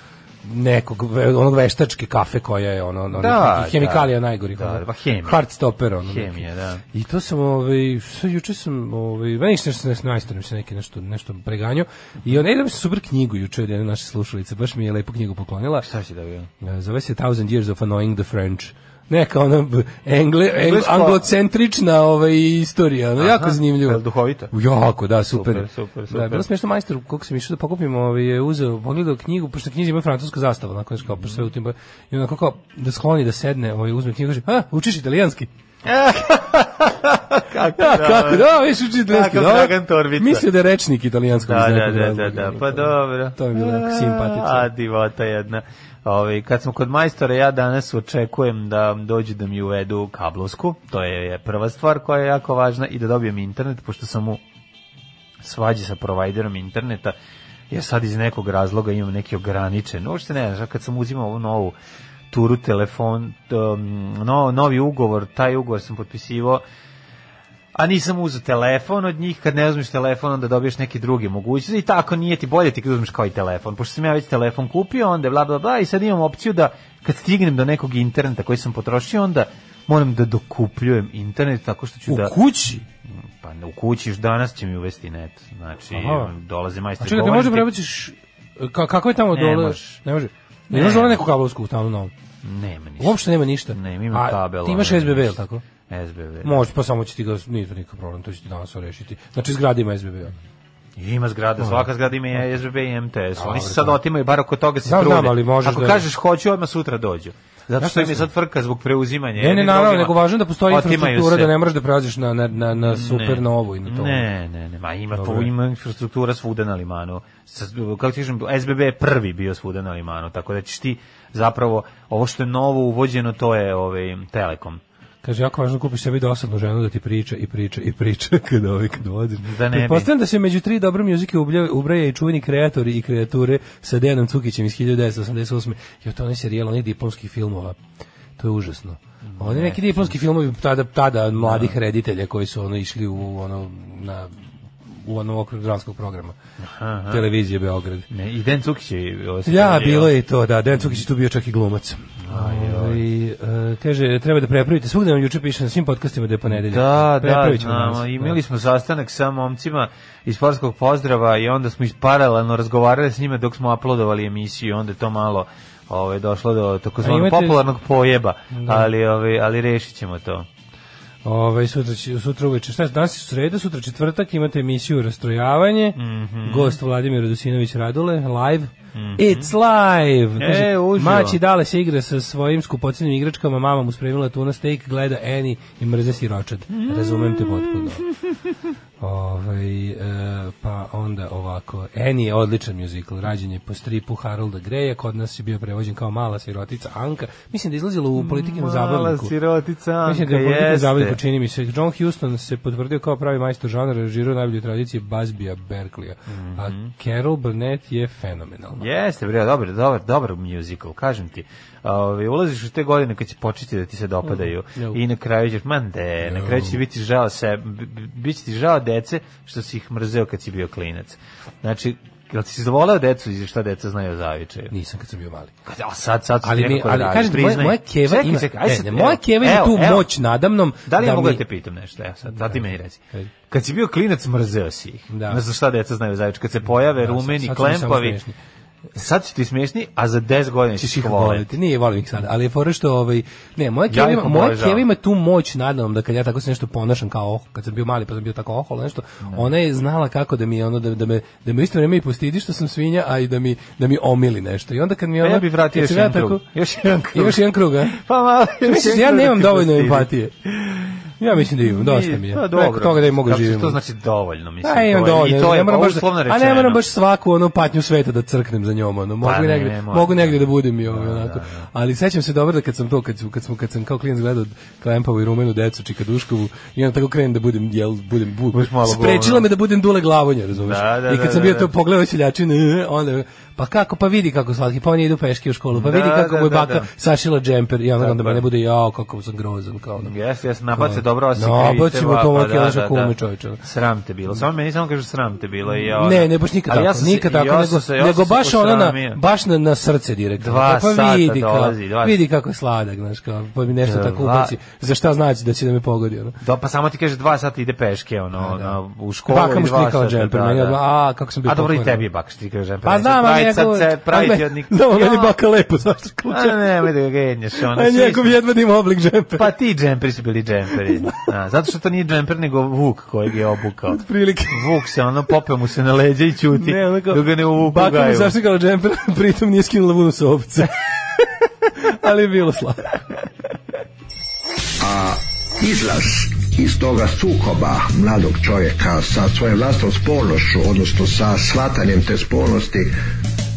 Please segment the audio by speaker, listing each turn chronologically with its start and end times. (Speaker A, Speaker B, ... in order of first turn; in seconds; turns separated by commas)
Speaker A: 0.4-15.9, Speaker B: 3.1-5.4, Speaker B: 6.0-6.8, Speaker B: 15.8-16.5, Speaker A: 16.6-35.5, Speaker B: 20.6-21.2, Speaker B: 23.2-24.5, Speaker B: 25.3-26.4, Speaker B: 31.2-31.4, Speaker B: 35.8-38.5, Speaker A: 37.7-44.7, Speaker B: 39.0-40.4, Speaker B: 41.4-54.4, Speaker B: 55.4-57.1, Speaker B: 57.7-61.8, Speaker B: 62.3-66.6, Speaker B: 67.7-82.3, Speaker A: 82.1-82.8, Speaker B: 83.2-87.7, Speaker A: 85.9-86.3, Speaker A: 87.0-92.1, Speaker B: 89.3-90.0, Speaker B: 90.7-91.2, Speaker B: 92.4-93.2, Speaker A: 93.0-95.6, Speaker B: 93.7-95.3, Speaker B: 95.9-96.6, Speaker A: 96.4-100.3, Speaker B: 101.0-111.5, Speaker A: 101.6-102.4, Speaker A: 103.3-104.0, Speaker A: 104.8-106.0, Speaker A: 107.8-108.3, Speaker A: 109.4-114.3, Speaker B: 112.9-124.8, Speaker A: 115.1-115.5, Speaker A: 125.2-137.8, Speaker B: 129.4-130.1, Speaker A: 138.4-146.3, Speaker B: 139.2-140.1, Speaker B: 141.4-141.8, Speaker B: 146.6-147.2, Speaker A: 147.1-148.1, Speaker B: 148.1-150.1, Speaker A: 149.4-158.4, Speaker B: 152.2-153.0, Speaker B: 156.5-170.5, Speaker A: 167.0-167.7, Speaker A: 168.5-168.9, Speaker A: 171.2-188.0, Speaker B: 175.9-176.8, Speaker B: 178.9-179.5, Speaker B: 180.4-181.4, Speaker B: 186.7-187.9, Speaker A: 189.0-199.3, Speaker B: 198.2-201.2, Speaker A: 200.1-208.9, Speaker B: 206.3-206.9, Speaker B: 208.8-224.7, Speaker A: 214.2-215.0, Speaker A: 216.2-216.8, Speaker A: 224.7-225.5, Speaker B: 225.7-230.1, Speaker A: 226.4-231.4, Speaker B: 230.9-238.2, Speaker A: 232.3-233.3, Speaker A: 235.1-235.4, Speaker A: 236.8-238.4, Speaker B: 238.9-241.5, Speaker A: 240.8-256.4, Speaker B: 243.9-244.8, Speaker B: 249.2-249.5, Speaker B: 255.2-261.0, Speaker A: 257.1-257.9, Speaker A: 258.6-260.4, Speaker A: 261.2-263.8, Speaker B: 261.6-266.8, Speaker A: 264.6-290.1, Speaker B: 269.2-271.7, Speaker B: 278.5-279.4, Speaker B: 280.6-281.7, Speaker B: 285.7-286.9, Speaker B: 288.0-288.4, Speaker B: 290.0-299.2, Speaker A: 290.7-293.6, Speaker A: 295.7-306.4, Speaker B: 300.4-302.2, Speaker B: 303.8-304.6, Speaker B: 306.4-310.8, Speaker A: 308.4-312.0, Speaker B: 311.4-315.3, Speaker A: 312.8-316.9, Speaker B: 316.3-318.4, Speaker A: 317.6-319.5, Speaker B: 319.4-328.3, Speaker A: 320.7-321.3, Speaker A: 323.9-324.7, Speaker A: 326.5-333.3, Speaker C: 334.8-342.9